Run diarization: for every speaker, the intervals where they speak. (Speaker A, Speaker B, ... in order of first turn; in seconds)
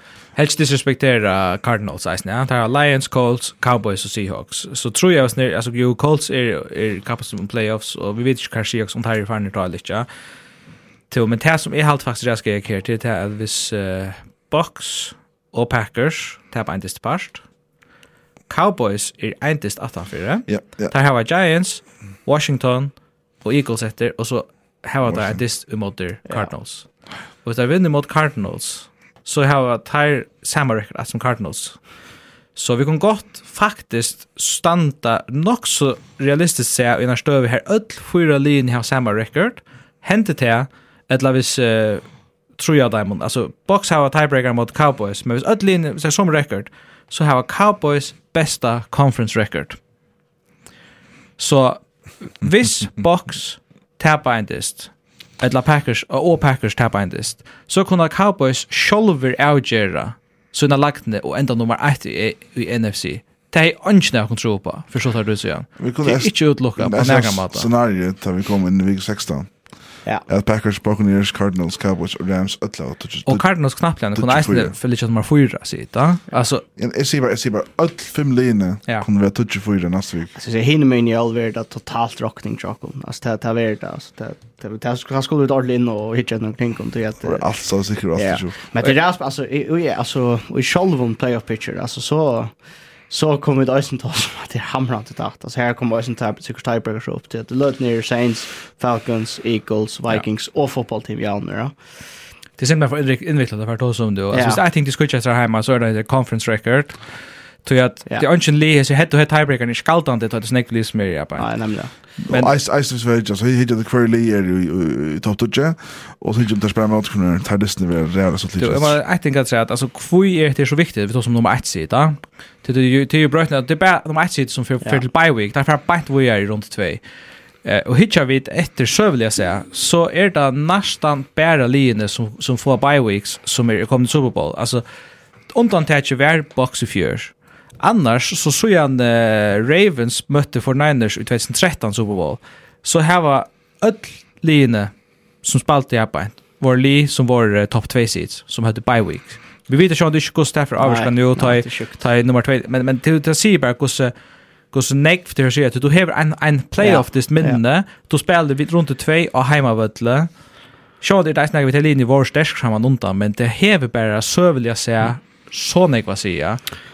Speaker A: 0.3-10.1, 11.1-17.4, 18.5-26.9, 27.4-31.8, 32.5-49.8, 51.4-67.7, 73.3-76.7, 102.6-112.5, 118.6-127.0, 127.6-134.8, 135.5-154.1, 154.7-160.3, 161.0-166.6
Speaker B: 20.5-20.9, 25.1-25.4, 65.8-74.8, 76.8-80.3, 87.2-88.6, 112.2-119.0
Speaker C: 80.3-87.5, 88.1-101.8, 104.3-104.6, 111.4-112.0, 150.8-152.0, 156.8-157.6